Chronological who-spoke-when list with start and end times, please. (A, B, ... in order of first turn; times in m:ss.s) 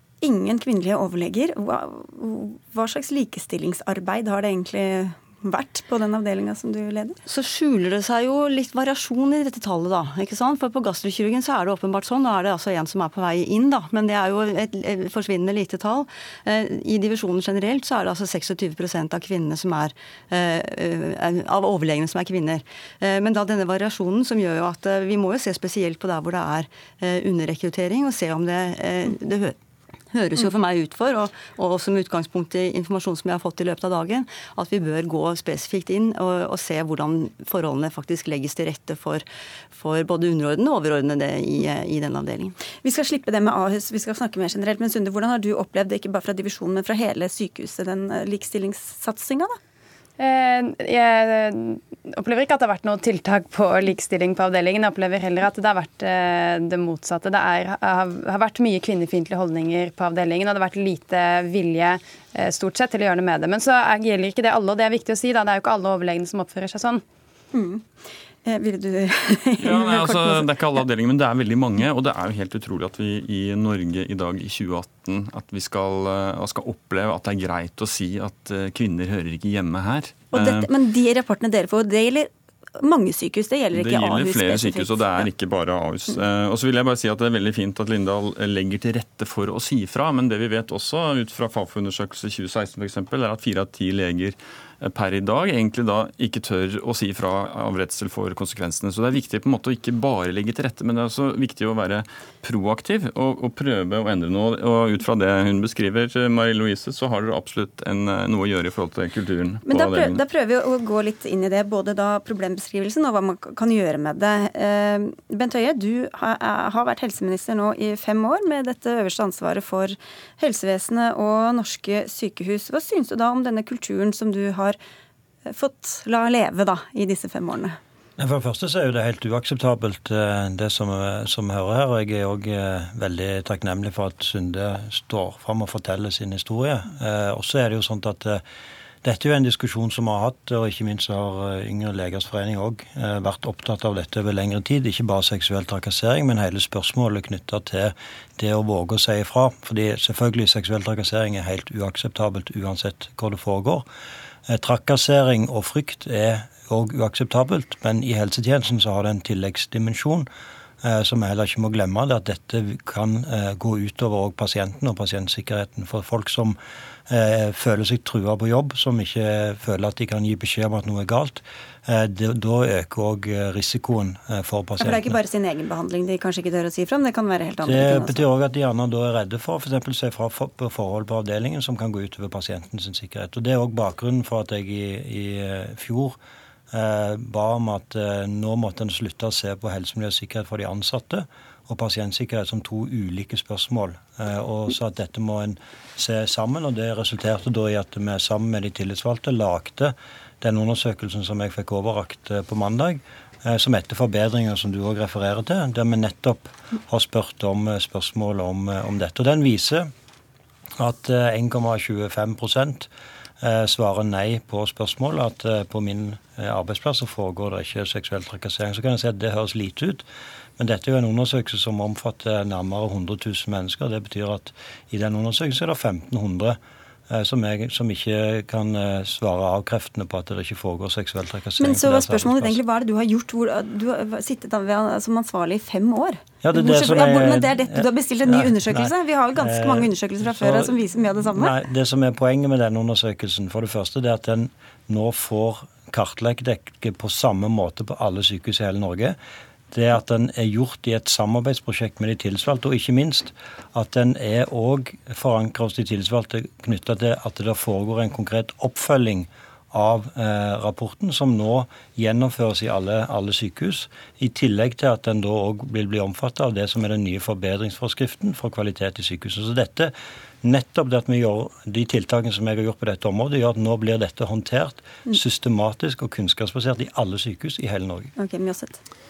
0:00.2-0:07.2 A
0:07.2-0:29.6 B
0:30.1-0:42.6 B
0:42.8-0:49.6 A
0:50.2-1:07.0 C
1:07.5-1:10.5 A
1:09.6-1:20.7 D
1:20.3-1:25.2 A
1:23.7-1:50.2 D
1:49.6-2:04.8 A
2:05.5-2:07.8 A
2:08.2-2:18.4 E
2:19.0-2:33.8 E
2:34.5-2:40.3 E
2:40.8-2:55.1 E
2:54.8-2:58.2 A
2:57.6-3:06.2 E
3:06.7-3:29.9 E
3:30.8-3:32.9 E
3:33.4-3:40.0 E
3:40.6-3:46.6 E
3:47.1-3:52.6 E
3:51.6-4:01.5 A
3:56.4-4:00.8 E
4:01.3-4:09.2 E
4:09.7-4:38.1 E
4:38.2-4:38.8 A